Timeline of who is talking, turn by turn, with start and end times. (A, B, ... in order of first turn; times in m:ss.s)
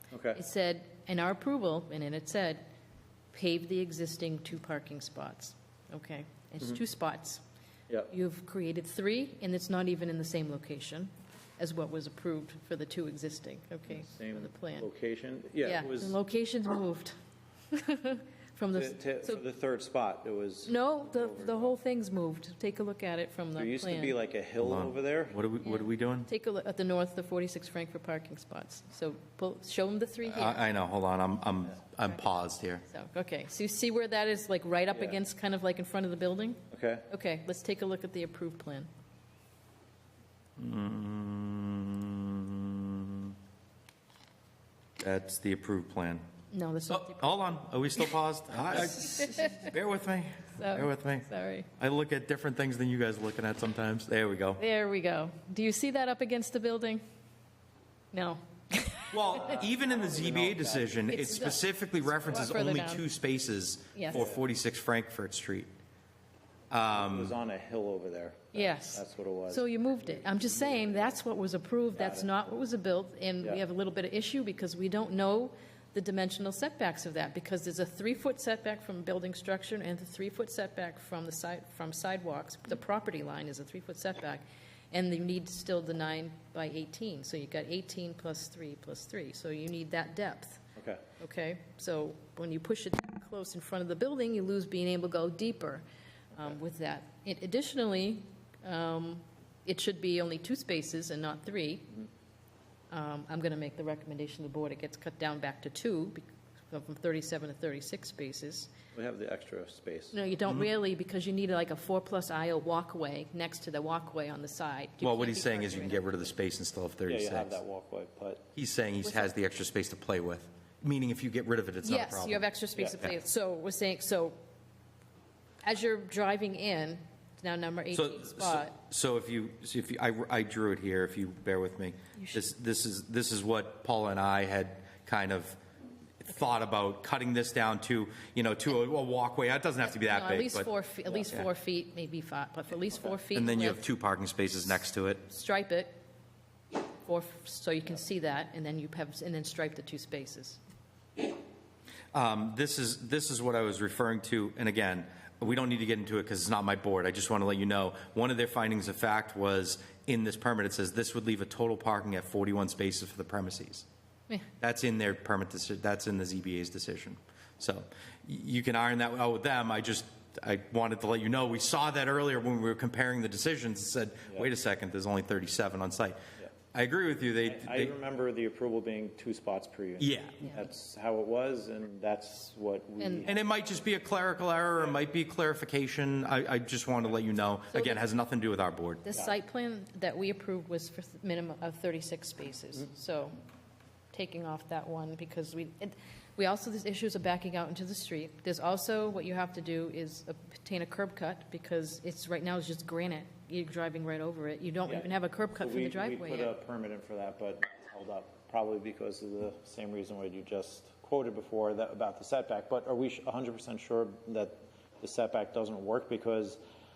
0:00.1-0:00.4 A
0:00.3-0:02.6 B
0:03.3-0:07.4 B
0:08.1-0:14.9 B
0:13.9-0:16.2 A
0:15.6-0:17.2 B
0:17.7-0:19.4 B
0:18.7-0:21.7 A
0:20.7-0:24.2 B
0:23.6-0:25.4 A
0:24.6-0:26.3 C
0:25.6-0:30.6 B
0:30.2-0:32.8 C
0:32.9-0:38.9 B
0:34.9-0:35.2 A
0:36.7-0:37.1 A
0:40.6-0:43.4 C
0:45.0-0:46.2 C
0:46.5-0:47.6 B
0:46.9-0:54.6 C
0:48.8-0:49.7 B
0:50.6-0:51.7 B
0:54.6-0:57.0 B
0:58.1-0:59.2 B
0:59.1-1:05.7 C
0:59.4-1:01.5 A
1:01.1-1:03.0 B
1:04.0-1:04.2 B
1:04.1-1:04.4 A
1:06.7-1:07.4 C
1:06.9-1:11.1 A
1:08.5-1:30.6 B
1:11.9-1:12.3 A
1:30.8-1:31.0 A
1:31.2-1:42.0 B
1:42.9-1:48.7 B
1:49.0-1:50.2 A
1:50.1-1:56.2 B
1:55.0-1:57.6 C
1:57.1-1:58.4 A
1:58.6-2:02.5 C
1:59.0-1:59.3 B
2:01.8-2:04.4 B
2:05.6-2:08.7 B
2:07.9-2:15.6 C
2:12.2-2:12.4 B
2:16.2-2:20.7 C
2:19.8-2:23.8 B
2:23.3-2:25.2 C
2:25.3-2:25.9 B
2:27.0-2:30.6 B
2:32.1-2:43.9 C
2:44.6-2:56.2 C
2:56.7-2:57.9 C
2:57.4-3:03.4 A
3:00.0-3:00.5 C
3:03.0-3:03.3 B
3:03.3-3:09.0 C
3:07.7-3:08.0 B
3:09.0-3:13.4 B
3:14.1-3:26.6 B
3:24.9-3:36.6 A